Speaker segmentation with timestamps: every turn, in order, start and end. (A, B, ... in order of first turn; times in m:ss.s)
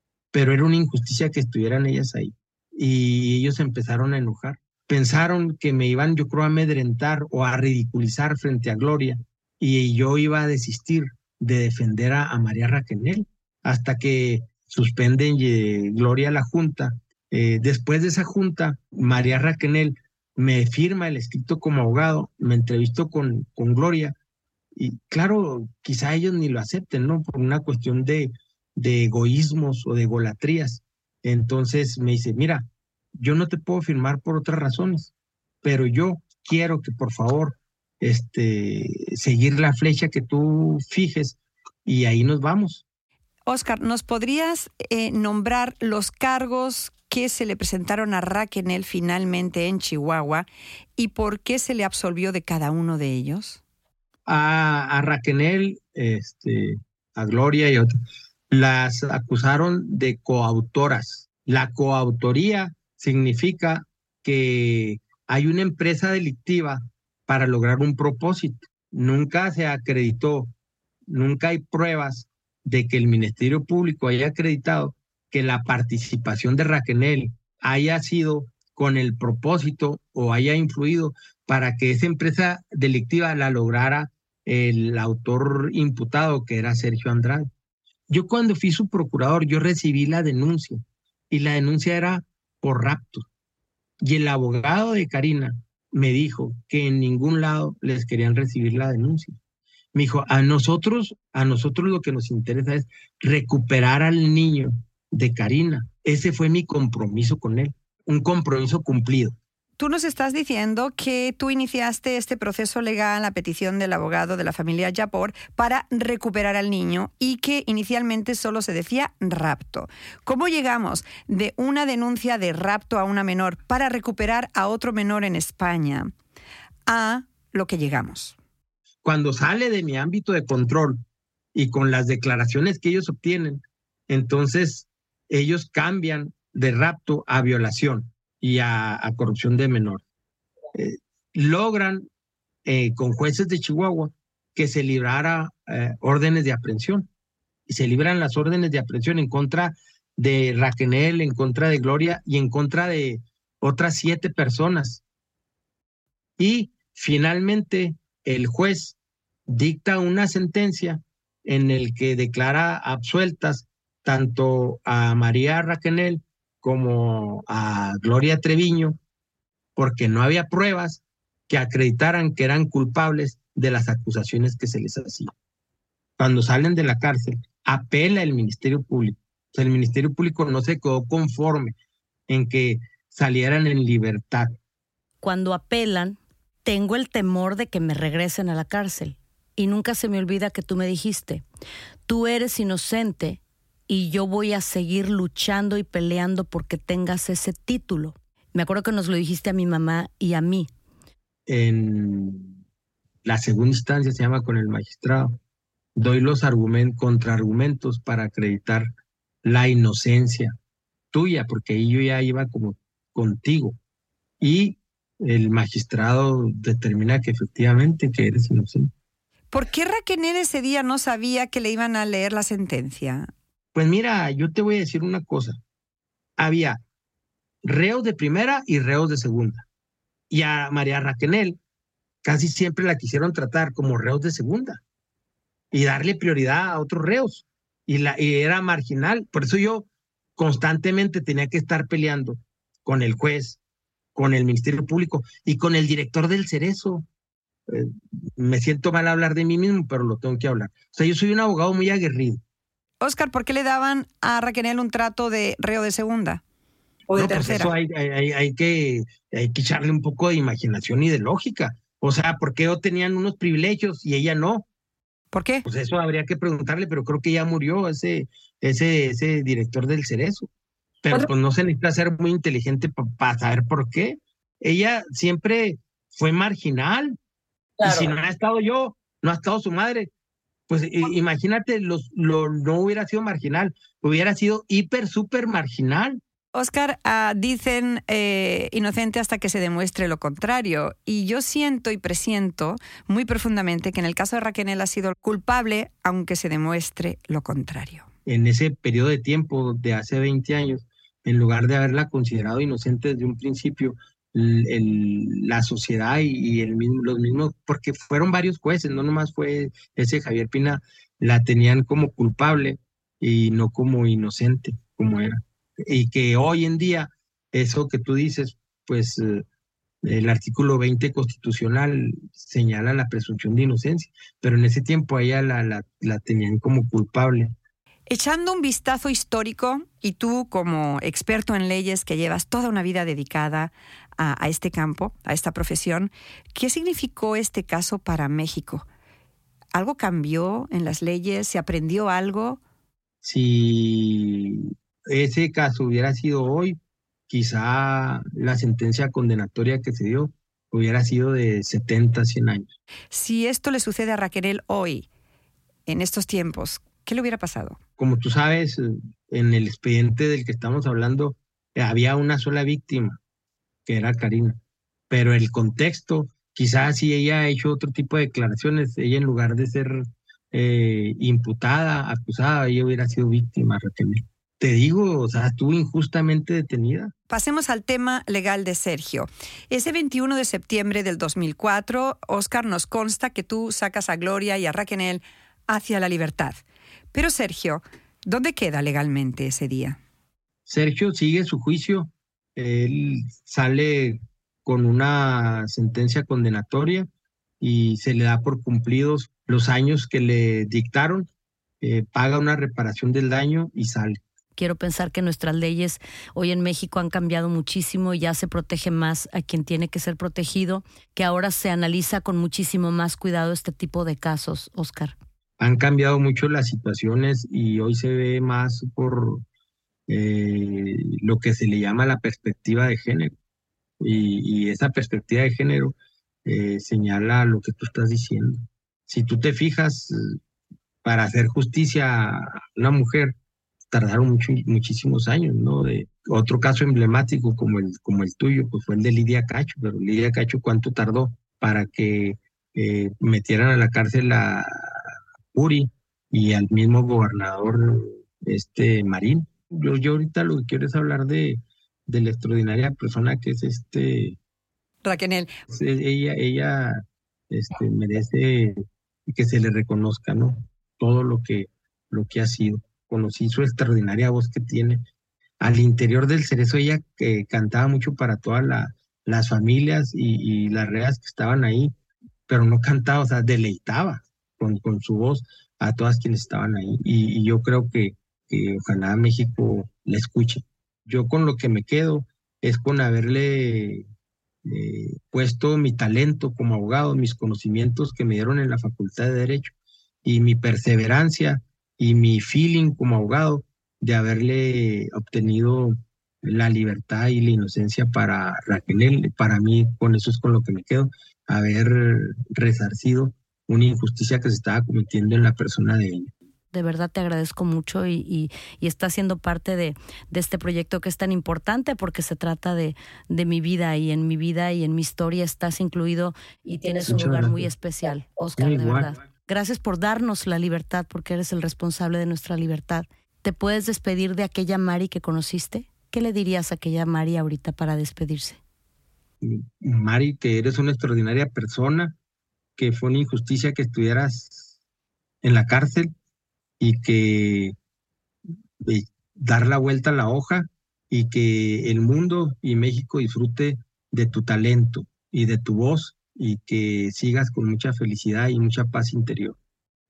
0:00.3-0:24.2 A
0:24.8-0:35.1 A
0:35.6-0:42.8 A
0:43.5-0:53.6 B
0:54.3-0:58.0 A
0:58.5-1:10.5 A
1:11.1-1:27.5 A
1:28.1-1:33.3 A
1:34.0-1:39.4 A
1:39.9-1:49.4 A
1:49.8-2:06.1 B
2:06.9-2:08.4 B
2:09.0-2:11.0 A
2:11.6-2:20.0 A
2:20.8-2:22.1 A
2:22.6-2:27.1 A
2:27.7-2:35.0 A
2:36.4-2:39.0 A
2:39.5-2:49.0 A
2:49.8-2:55.3 A
2:56.2-3:01.8 A
3:02.3-3:04.6 A
3:05.2-3:11.4 C
3:12.1-3:20.7 C
3:21.5-3:22.6 A
3:23.2-3:25.4 A
3:26.0-3:28.9 A
3:29.4-3:30.6 A
3:31.1-3:33.8 A
3:34.4-3:38.9 A
3:39.5-3:43.3 B
3:43.8-3:45.6 A
3:46.4-3:46.8 A
3:47.6-3:49.6 A
3:50.3-3:51.6 A
3:52.2-3:54.8 A
3:55.7-4:03.6 A
4:04.2-4:07.0 A
4:07.7-4:12.4 A
4:13.0-4:16.4 B
4:17.1-4:17.7 B
4:17.1-4:24.6 A
4:25.3-4:25.6 B
4:25.6-4:30.5 A
4:31.0-4:37.2 A
4:37.8-4:40.1 A
4:40.7-4:46.2 A
4:46.6-4:58.1 B
4:58.3-5:19.4 A
5:20.0-5:27.5 A
5:28.1-5:38.9 B
5:39.8-5:42.6 B
5:43.2-5:46.8 A
5:47.3-5:52.8 A
5:53.1-5:55.1 B
5:55.9-5:57.8 B
5:58.0-6:03.2 A
6:03.9-6:04.6 A
6:05.1-6:17.1 A
6:17.3-6:26.6 B
6:27.1-6:30.0 B
6:30.7-6:37.1 A
6:37.6-6:41.3 A
6:41.8-6:44.2 A
6:44.6-6:55.2 C
6:55.6-6:59.4 A
7:00.1-7:03.3 A
7:04.0-7:10.4 A
7:11.0-7:13.4 A
7:13.9-7:25.0 A
7:25.5-7:34.4 A
7:35.0-7:35.5 B
7:35.7-7:45.0 A
7:45.6-7:51.9 A
7:52.5-8:04.1 A
8:04.6-8:26.3 A
8:26.7-8:48.6 C
8:37.0-8:37.6 A
8:38.6-8:39.1 A
8:49.4-8:52.2 A
8:52.8-8:54.7 A
8:55.4-8:56.1 A
8:56.8-8:57.8 A
8:58.8-9:09.6 A